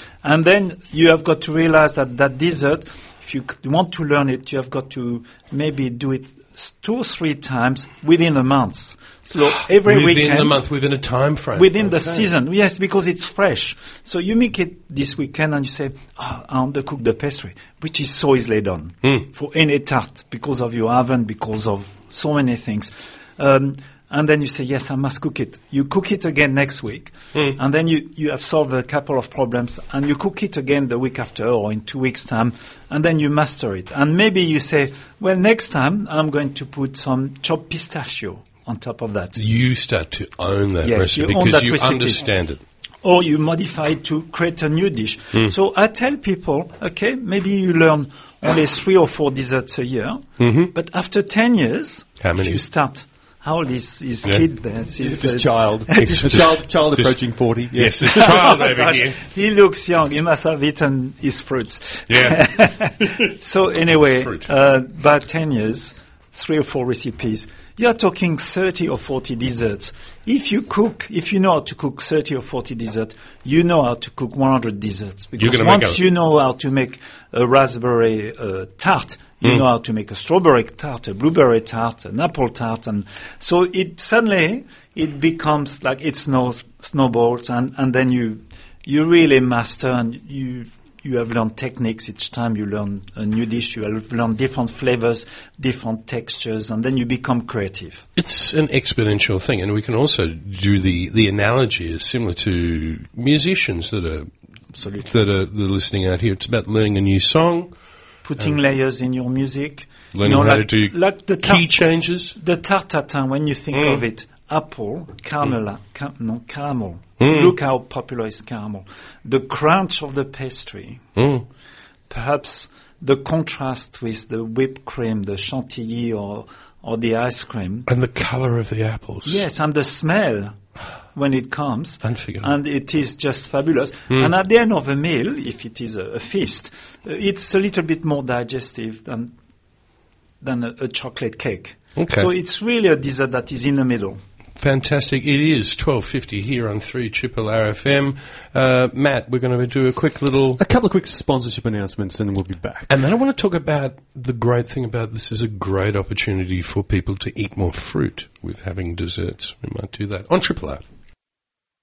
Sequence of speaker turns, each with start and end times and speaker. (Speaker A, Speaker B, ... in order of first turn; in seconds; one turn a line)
Speaker A: 0.2-10.6
Speaker B: 9.8-12.3
Speaker A: 11.5-39.4
Speaker B: 39.4-42.6
Speaker A: 40.8-42.3
Speaker A: 43.0-56.4
Speaker B: 50.4-50.7
Speaker B: 52.2-52.6
Speaker C: 55.0-58.5
Speaker B: 56.0-57.2
Speaker B: 57.7-59.3
Speaker A: 58.1-98.0
Speaker B: 62.1-62.4
Speaker B: 75.4-76.0
Speaker B: 98.2-107.7
Speaker A: 108.3-111.8
Speaker B: 110.1-112.3
Speaker A: 112.4-121.0
Speaker B: 113.7-114.0
Speaker B: 117.2-117.5
Speaker B: 121.2-121.5
Speaker A: 122.1-127.9
Speaker B: 127.9-129.4
Speaker A: 129.2-130.6
Speaker A: 131.1-139.3
Speaker B: 132.0-132.5
Speaker A: 140.4-144.2
Speaker B: 142.0-142.3
Speaker B: 144.6-150.6
Speaker C: 150.6-152.9
Speaker B: 152.9-160.8